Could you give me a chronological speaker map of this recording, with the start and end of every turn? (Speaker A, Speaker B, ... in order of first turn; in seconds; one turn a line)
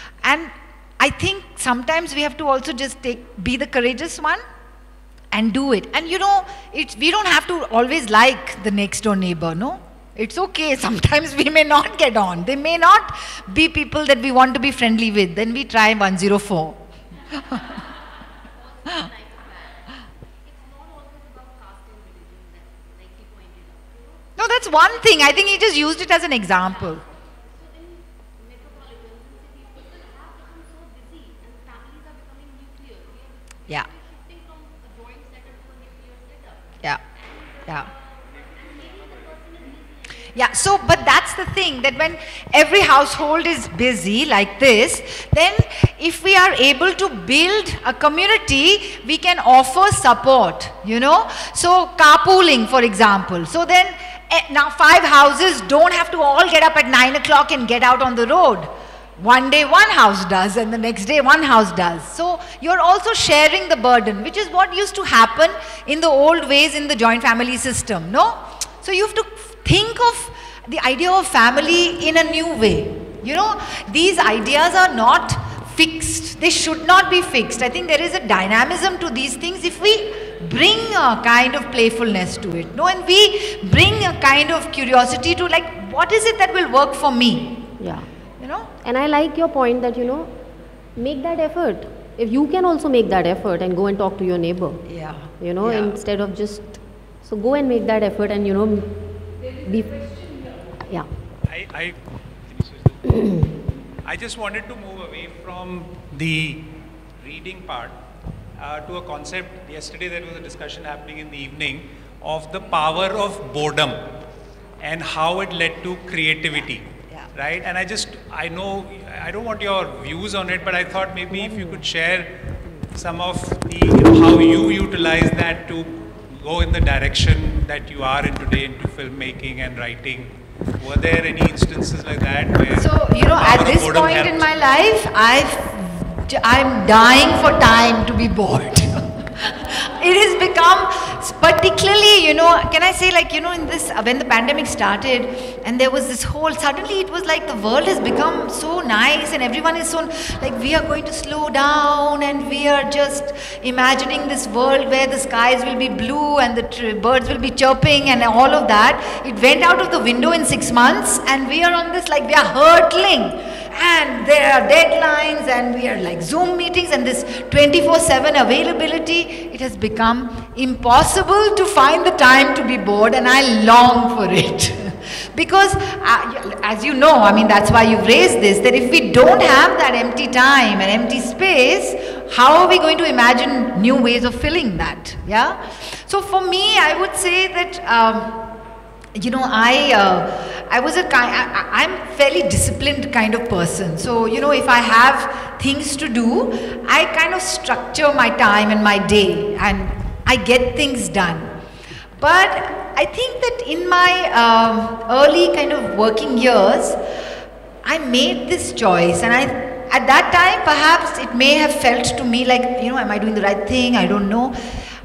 Speaker A: 0.2-4.4
Speaker A: 5.3-16.8
Speaker A: 17.4-17.7
Speaker A: 24.4-27.0
Speaker A: 37.6-37.9
Speaker B: 38.6-39.4
Speaker A: 40.3-87.7
Speaker C: 87.8-88.1
Speaker A: 88.4-88.7
Speaker C: 88.8-90.3
Speaker C: 91.0-94.8
Speaker A: 94.9-96.0
Speaker C: 95.4-99.0
Speaker C: 99.6-100.2
Speaker B: 101.5-103.2
Speaker B: 104.0-108.0
Speaker B: 108.6-114.1
Speaker B: 114.8-122.4
Speaker A: 116.5-117.3
Speaker C: 121.5-121.8
Speaker B: 122.9-134.5
Speaker A: 132.8-188.6
Speaker A: 189.2-201.6
Speaker A: 202.2-207.0
Speaker A: 207.8-214.6